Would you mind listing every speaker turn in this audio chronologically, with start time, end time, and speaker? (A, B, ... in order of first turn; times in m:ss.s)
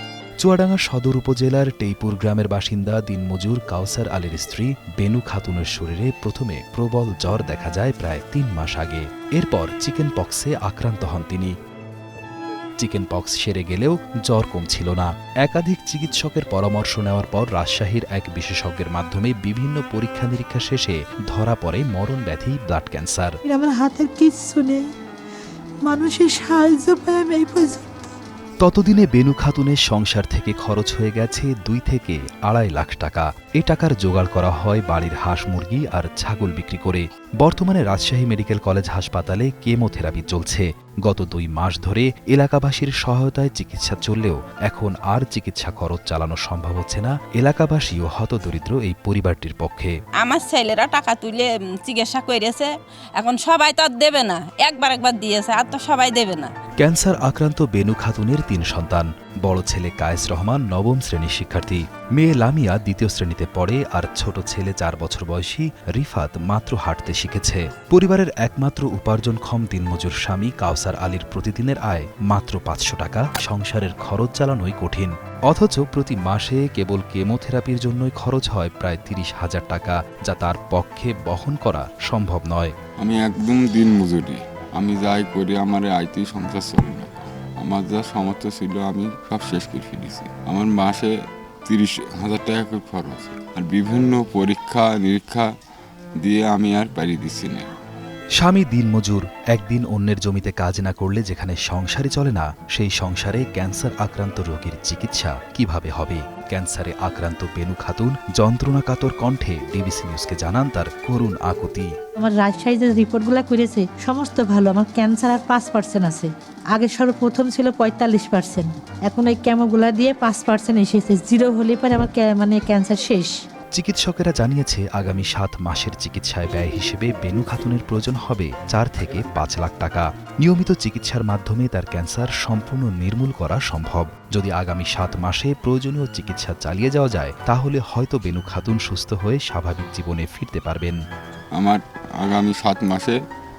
0:00.4-0:11.6 A
0:12.8-0:23.4 A
0:23.4-0:24.9 B
0:25.8-0:27.8 B
0:28.6-0:49.9 A
0:50.2-0:56.5 C
0:56.8-1:22.7 A
1:23.0-1:31.1 D
1:31.7-1:35.5 D
1:36.2-1:37.7 D
1:38.4-1:51.9 A
1:52.2-2:03.3 B
2:03.8-2:21.0 A
2:21.6-2:23.2 D